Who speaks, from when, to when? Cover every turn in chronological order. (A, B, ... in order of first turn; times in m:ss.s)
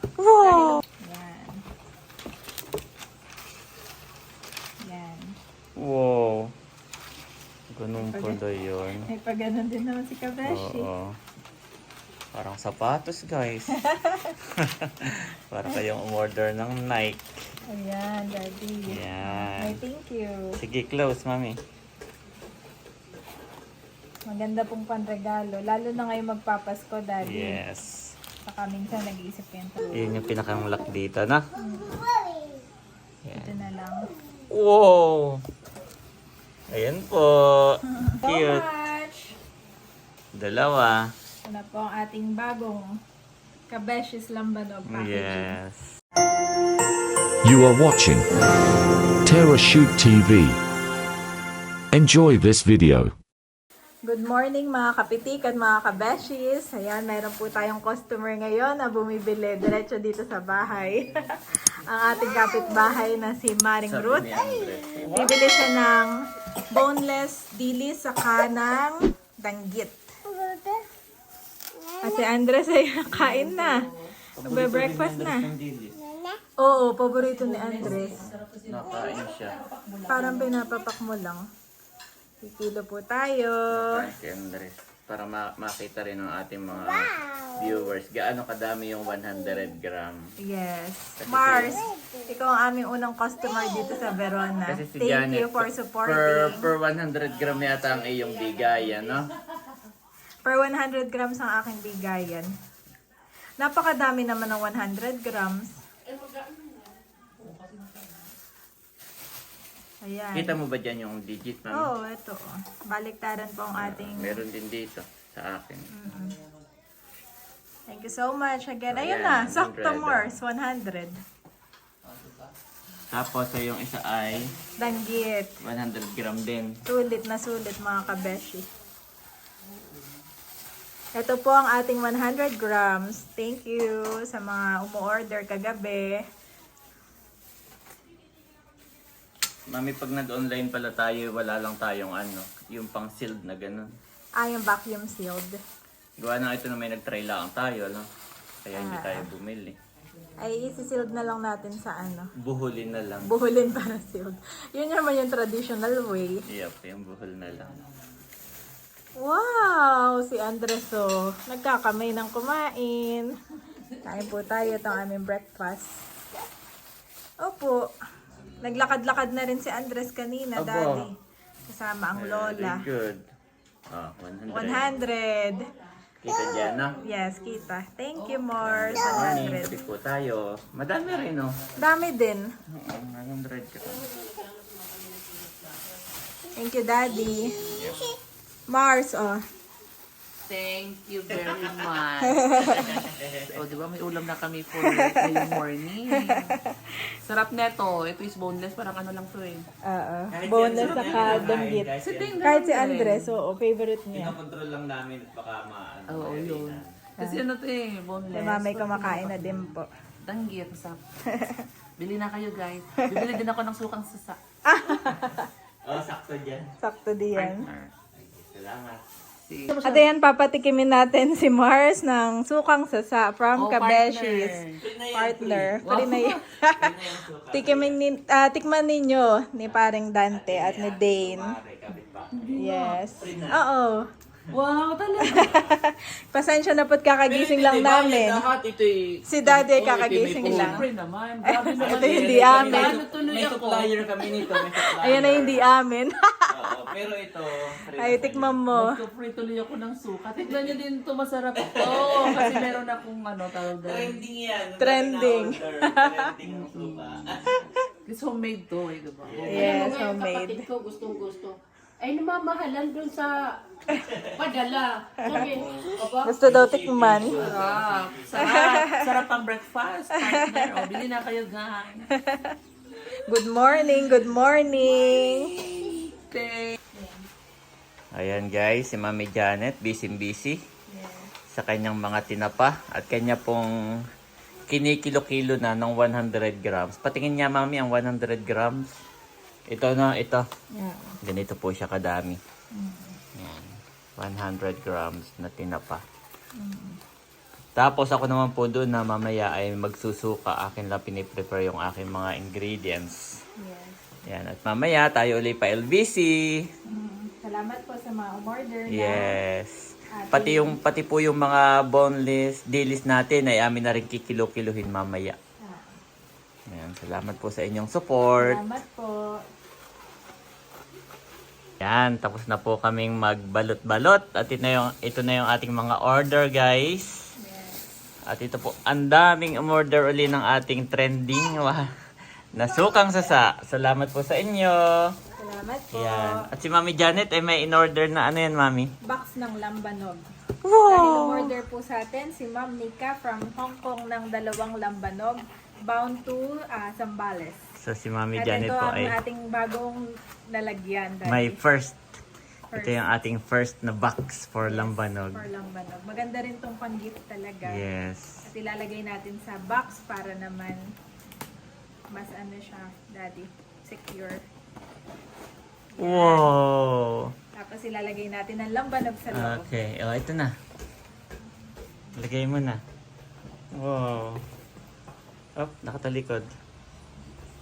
0:00.2-0:00.8 A
0:00.4-0:01.6 B
0:04.8-0:05.4 B
0:05.8-0:06.5 A
0:07.7-0:09.1 A
0:08.0-0:08.4 B
0:09.1-0:10.9 B
0:10.4-0:11.2 A
0:12.3-0:13.8 A
0:13.8-0:14.4 B
0:14.4-0:17.2 A
0:17.7-0:20.5 B
0:18.9-0:19.8 A
0:20.6-0:21.6 A
0:24.3-0:27.6 B
0:27.2-0:28.1 A
0:28.4-0:30.1 B
0:29.9-0:31.5 A
0:31.6-0:32.0 B
0:33.2-0:33.6 A
0:33.4-0:34.0 B
0:34.5-0:35.4 A
0:36.7-0:38.6 A
0:37.9-0:39.4 B
0:40.4-0:41.1 A
0:41.4-0:43.0 B
0:43.7-0:45.6 B
0:44.9-0:45.9 A
0:47.4-0:48.3 C
0:49.2-0:50.6 C
0:51.9-0:53.1 C
0:54.0-1:04.3 B
1:03.9-1:05.4 A
1:05.0-1:06.1 B
1:06.7-1:10.1 B
1:12.0-1:13.8 B
1:13.1-1:14.1 D
1:14.4-1:16.0 A
1:14.4-1:15.5 B
1:16.6-1:18.2 B
1:17.3-1:20.5 D
1:18.2-1:19.6 A
1:20.1-1:21.4 B
1:22.4-1:24.0 B
1:23.7-1:30.3 A
1:30.4-1:36.7 B
1:31.2-1:31.8 A
1:34.7-1:39.3 A
1:38.6-1:39.0 D
1:40.4-1:42.5 B
1:43.6-1:45.8 B
1:47.4-1:48.0 D
1:50.0-1:50.6 B
1:50.4-1:51.9 A
1:51.7-1:54.4 B
1:53.8-1:55.9 A
1:55.9-1:56.4 B
1:57.9-2:01.2 B
1:58.9-2:00.4 A
2:03.1-2:04.5 A
2:04.8-2:05.6 B
2:05.6-2:06.8 A
2:06.9-2:08.7 B
2:11.2-2:16.2 B
2:19.7-2:23.9 A
2:24.4-2:25.6 B
2:26.2-2:28.1 A
2:28.6-2:29.8 A
2:28.7-2:29.3 B
2:30.4-2:32.3 B
2:32.4-2:33.3 A
2:33.2-2:36.4 B
2:36.5-2:37.8 A
2:39.2-2:43.3 B
2:44.0-2:46.0 B
2:47.4-2:47.9 B
2:48.6-2:51.1 B
2:50.6-2:51.1 A
2:51.7-2:52.9 B
2:52.1-2:53.2 A
2:53.9-2:54.9 A
2:54.5-2:55.7 B
2:56.2-2:57.0 A
2:57.0-2:59.8 B
2:58.6-3:01.6 A
3:01.8-3:02.5 B
3:02.7-3:04.0 A
3:06.6-3:07.6 B
3:07.7-3:08.0 A
3:08.7-3:09.4 B
3:10.5-3:12.5 D
3:12.2-3:13.0 B
3:12.6-3:13.5 A
3:13.5-3:16.6 D
3:14.8-3:15.5 B
3:16.1-3:16.8 B
3:17.1-3:19.7 D
3:19.8-3:24.4 B
3:20.3-3:22.3 A
3:20.8-3:23.4 D
3:24.1-3:26.9 A
3:26.1-3:29.7 D
3:28.3-3:29.9 B
3:30.2-3:31.0 D
3:31.3-3:31.7 B
3:32.0-3:34.4 D
3:34.6-3:35.5 B
3:35.8-3:36.7 A
3:36.8-3:37.7 B
3:37.4-3:37.9 D
3:38.1-3:39.0 A
3:39.5-3:40.1 D
3:39.8-3:51.6 B
3:43.6-3:44.8 D
3:44.8-3:45.9 A
3:45.8-3:46.4 D
3:46.8-3:48.0 A
3:50.3-3:52.4 A
3:52.3-3:53.0 D
3:52.6-3:54.1 B
3:53.2-3:53.6 A
3:54.5-3:55.6 D
3:55.2-3:58.4 B
3:57.3-3:59.0 A
3:59.3-4:00.9 B
3:59.6-4:00.8 A
4:00.4-4:03.9 D
4:01.4-4:03.0 B
4:01.8-4:05.6 A
4:04.2-4:06.5 B
4:06.5-4:08.6 A
4:08.0-4:09.0 B
4:08.7-4:14.2 D
4:11.6-4:12.6 A
4:13.8-4:17.7 A
4:14.8-4:16.3 B
4:16.4-4:17.2 D
4:18.1-4:19.7 D
4:19.2-4:19.8 A
4:19.5-4:20.7 B
4:19.5-4:23.6 E
4:24.4-4:26.4 E
4:25.2-4:25.5 B
4:25.3-4:28.6 A
4:26.2-4:27.4 B
4:27.4-4:32.1 D
4:28.4-4:29.1 B
4:30.2-4:30.7 B
4:32.1-4:32.6 B
4:33.2-4:35.8 B
4:35.1-4:36.8 D
4:36.9-4:37.2 B
4:38.1-4:40.6 A
4:40.9-4:41.3 B
4:41.5-4:43.7 A
4:44.7-4:48.9 A
4:49.7-4:50.4 A
4:50.7-4:51.2 B
4:51.2-4:52.4 A
4:52.7-4:53.2 B
4:53.4-4:56.0 A
4:56.6-4:57.0 B
4:57.8-5:03.4 A
5:03.6-5:04.0 B
5:04.3-5:06.6 A
5:06.9-5:09.4 B
5:08.9-5:15.4 A
5:10.1-5:10.8 B
5:15.6-5:16.0 B
5:16.7-5:18.6 A
5:18.4-5:19.4 B
5:21.8-5:27.3 A
5:27.4-5:27.9 B
5:28.3-5:31.9 A
5:32.5-5:35.1 A
5:35.4-5:36.5 B
5:35.9-5:38.9 A
5:39.0-5:40.3 B
5:40.6-5:41.6 A
5:40.8-5:47.6 B
5:47.8-5:49.2 A
5:48.4-5:51.6 B
5:51.3-5:52.0 A
5:52.7-5:53.0 B
5:52.7-5:55.4 A
5:54.6-5:57.8 B
5:57.7-5:58.5 A
5:58.5-6:00.9 B
6:02.1-6:04.4 B
6:06.0-6:06.5 B
6:06.0-6:07.3 A
6:07.6-6:09.7 B
6:09.3-6:10.5 A
6:12.2-6:12.8 A
6:13.7-6:14.4 A
6:15.6-6:16.5 A